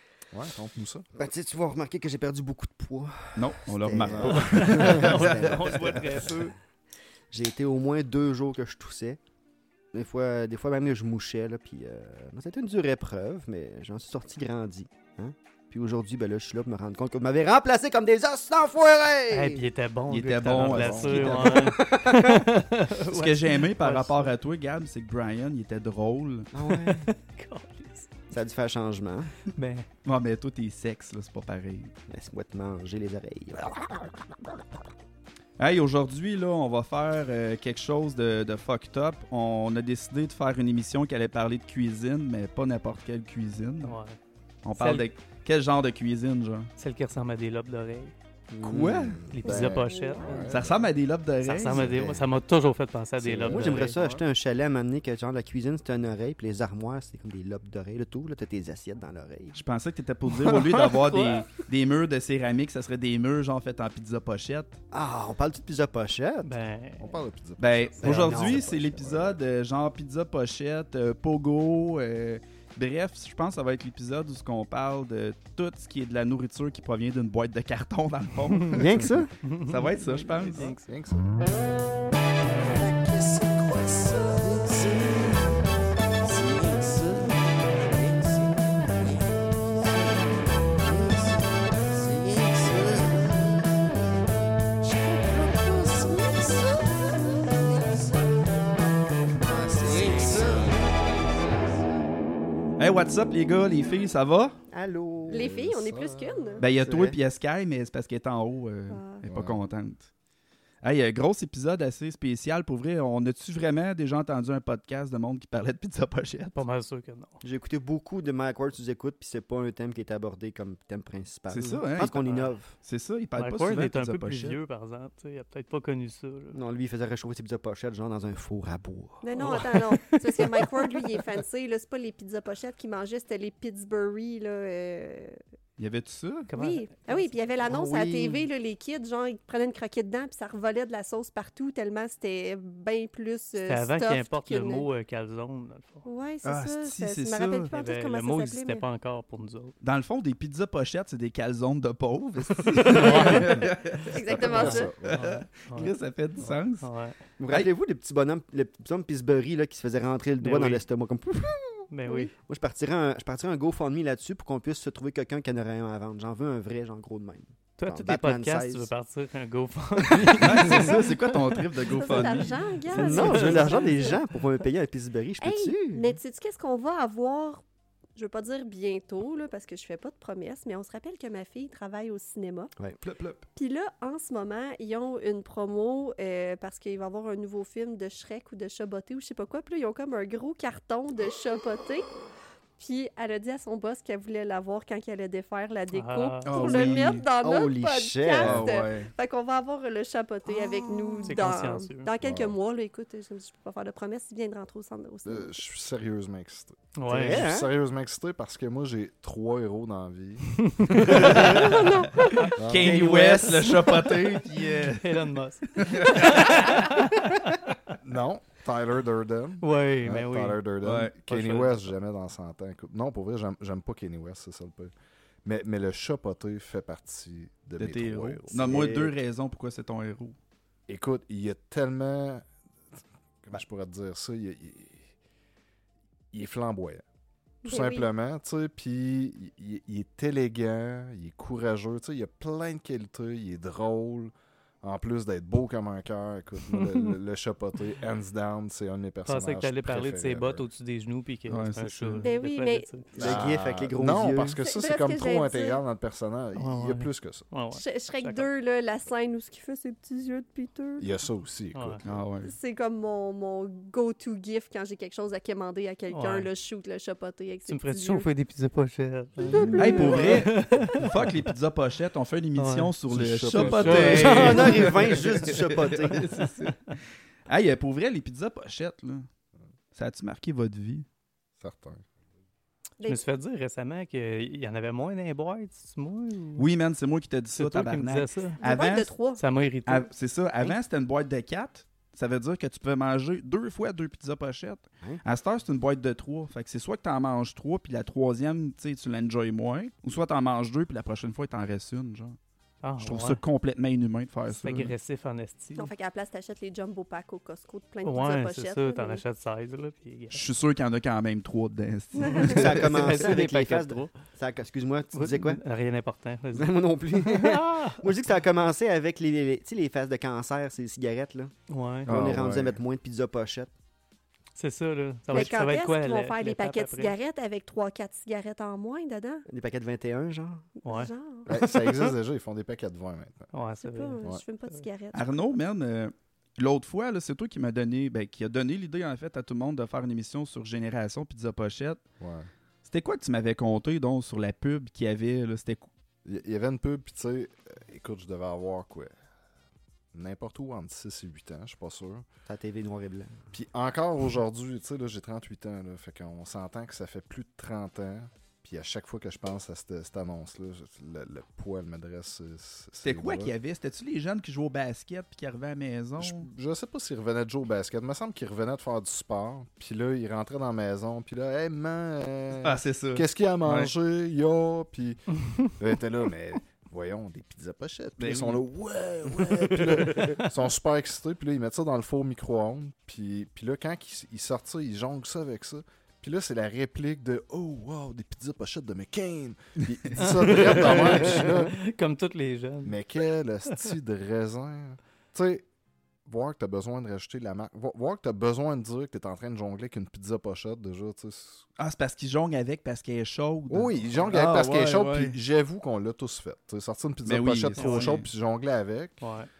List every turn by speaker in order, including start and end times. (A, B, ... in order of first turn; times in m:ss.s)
0:00.3-0:01.1 A
0:01.1-0:06.5 B
0:03.4-0:06.5 C
0:04.1-0:04.4 A
0:04.2-0:06.5 D
0:07.3-0:09.2 B
0:09.9-0:19.6 B
0:19.3-0:24.2 D
0:20.1-0:21.8 C
0:20.5-0:21.4 A
0:21.2-0:22.5 B
0:23.0-0:26.5 C
0:26.5-0:27.1 B
0:26.7-0:28.1 D
0:28.3-0:29.3 B
0:29.5-0:29.9 D
0:30.0-0:31.9 C
0:32.1-0:34.6 B
0:35.6-0:44.0 C
0:43.8-0:44.2 D
0:44.6-0:46.7 C
0:44.7-0:45.1 D
0:46.8-0:48.1 D
0:48.5-0:49.4 B
0:48.6-0:49.3 C
0:49.3-0:50.5 D
0:49.4-0:50.7 A
0:49.5-0:50.5 E
0:50.5-0:52.0 C
0:51.4-0:54.0 D
0:51.7-0:52.1 B
0:51.8-0:52.1 A
0:53.2-0:54.2 A
0:53.5-0:59.6 B
0:59.5-1:04.8 C
1:00.4-1:01.4 D
1:04.9-1:06.5 B
1:06.4-1:07.2 D
1:07.0-1:09.4 A
1:07.6-1:19.1 C
1:08.0-1:08.9 B
1:18.7-1:19.3 B
1:19.4-1:20.9 D
1:19.6-1:20.7 C
1:20.6-1:21.3 A
1:23.1-1:25.2 B
1:26.4-1:27.2 B
1:30.8-1:31.4 B
1:32.5-1:33.2 B
1:35.0-1:37.2 B
1:37.8-1:38.2 B
1:39.5-1:40.8 B
1:42.8-1:44.6 C
1:44.7-1:45.5 B
1:45.3-1:46.6 E
1:45.3-1:46.6 A
1:46.6-1:50.1 C
1:46.8-1:47.2 B
1:48.9-1:49.2 E
1:49.2-1:49.6 A
1:50.8-1:56.6 C
1:56.5-1:57.4 D
1:57.4-2:02.7 B
2:01.5-2:02.2 C
2:02.2-2:02.5 D
2:02.8-2:04.6 C
2:03.4-2:06.6 D
2:06.5-2:09.6 B
2:09.2-2:15.4 E
2:09.4-2:10.0 D
2:15.8-2:16.5 C
2:16.5-2:17.3 D
2:16.5-2:24.8 E
2:17.6-2:18.5 B
2:23.6-2:26.1 D
2:26.0-2:28.8 E
2:26.4-2:27.7 C
2:27.7-2:29.7 D
2:29.8-2:36.9 C
2:32.7-2:33.4 B
2:32.8-2:33.6 D
2:32.8-2:34.9 E
2:34.2-2:35.2 A
2:34.4-2:35.9 D
2:36.8-2:37.2 D
2:37.4-2:41.8 B
2:40.4-2:40.8 D
2:41.9-2:42.3 D
2:42.5-2:48.9 B
2:47.8-2:54.2 D
2:50.1-2:50.9 B
2:50.4-2:52.6 C
2:51.9-2:54.2 E
2:52.9-2:56.2 B
2:55.4-2:57.6 E
2:58.1-3:02.7 E
3:03.0-3:03.4 C
3:03.6-3:12.1 E
3:12.8-3:25.6 E
3:15.9-3:17.0 D
3:16.4-3:17.3 C
3:17.4-3:18.7 B
3:18.3-3:19.1 C
3:20.5-3:21.5 B
3:21.2-3:22.1 D
3:22.2-3:22.5 A
3:25.2-3:30.6 A
3:27.0-3:27.5 D
3:27.1-3:27.7 B
3:30.6-3:31.4 D
3:30.9-3:31.8 B
3:31.1-3:36.9 C
3:31.2-3:32.5 E
3:31.3-3:31.6 A
3:32.6-3:32.9 A
3:32.7-3:33.9 B
3:34.8-3:37.9 D
3:38.0-3:44.9 A
3:39.6-3:40.6 D
3:40.8-3:41.1 C
3:41.3-3:41.9 D
3:45.4-3:48.9 A
3:47.8-3:50.4 C
3:48.6-3:49.2 B
3:50.9-3:52.4 A
3:53.4-3:55.1 A
3:56.3-3:57.0 A
3:57.6-3:58.1 E
3:57.6-4:10.7 A
4:06.6-4:07.1 D
4:09.2-4:13.4 D
4:11.5-4:12.3 C
4:12.2-4:12.9 E
4:13.2-4:17.5 A
4:13.2-4:14.6 B
4:14.6-4:15.8 E
4:16.5-4:18.5 D
4:17.7-4:21.1 E
4:21.0-4:22.2 A
4:21.7-4:22.0 D
4:22.0-4:22.5 C
4:22.4-4:28.3 E
4:26.1-4:26.5 D
4:27.6-4:31.4 D
4:29.4-4:30.4 E
4:29.4-4:30.0 B
4:29.8-4:36.9 C
4:32.6-4:32.9 D
4:33.1-4:34.6 A
4:33.5-4:37.0 D
4:34.1-4:36.3 B
4:37.5-4:39.3 C
4:39.9-4:41.0 C
4:41.6-4:42.0 A
4:43.0-4:46.7 D
4:46.6-4:49.1 C
4:47.5-4:48.6 D
4:48.6-4:49.4 E
4:49.3-4:50.1 D
4:49.8-5:02.4 C
5:02.8-5:03.4 D
5:03.0-5:04.9 C
5:04.5-5:05.9 D
5:05.8-5:09.2 E
5:08.0-5:10.4 D
5:10.3-5:13.4 C
5:12.2-5:12.5 E
5:12.2-5:14.1 D
5:12.5-5:15.6 B
5:15.1-5:18.0 D
5:16.5-5:21.5 B
5:21.7-5:22.1 D
5:22.0-5:22.4 C
5:22.0-5:23.7 B
5:22.1-5:22.8 A
5:24.5-5:27.1 D
5:25.3-5:29.4 E
5:29.5-5:30.7 B
5:30.8-5:31.9 E
5:30.8-5:31.1 D
5:31.4-5:33.5 A
5:33.5-5:34.8 D
5:33.8-5:35.5 E
5:35.1-5:42.0 C
5:42.2-5:42.5 A
5:42.8-5:45.9 C
5:46.2-5:49.1 A
5:50.1-5:52.2 A
5:52.4-5:53.4 B
5:53.5-6:03.5 A
6:03.0-6:06.5 C
6:06.2-6:15.2 A
6:12.6-6:13.9 C
6:15.8-6:31.8 A
6:18.2-6:18.6 C
6:19.8-6:20.5 D
6:30.2-6:33.0 D
6:32.8-6:35.6 A
6:36.2-6:41.6 A
6:41.8-6:45.4 C
6:43.7-6:49.2 A
6:47.2-6:48.3 C
6:47.8-6:48.2 D
6:49.2-6:49.5 D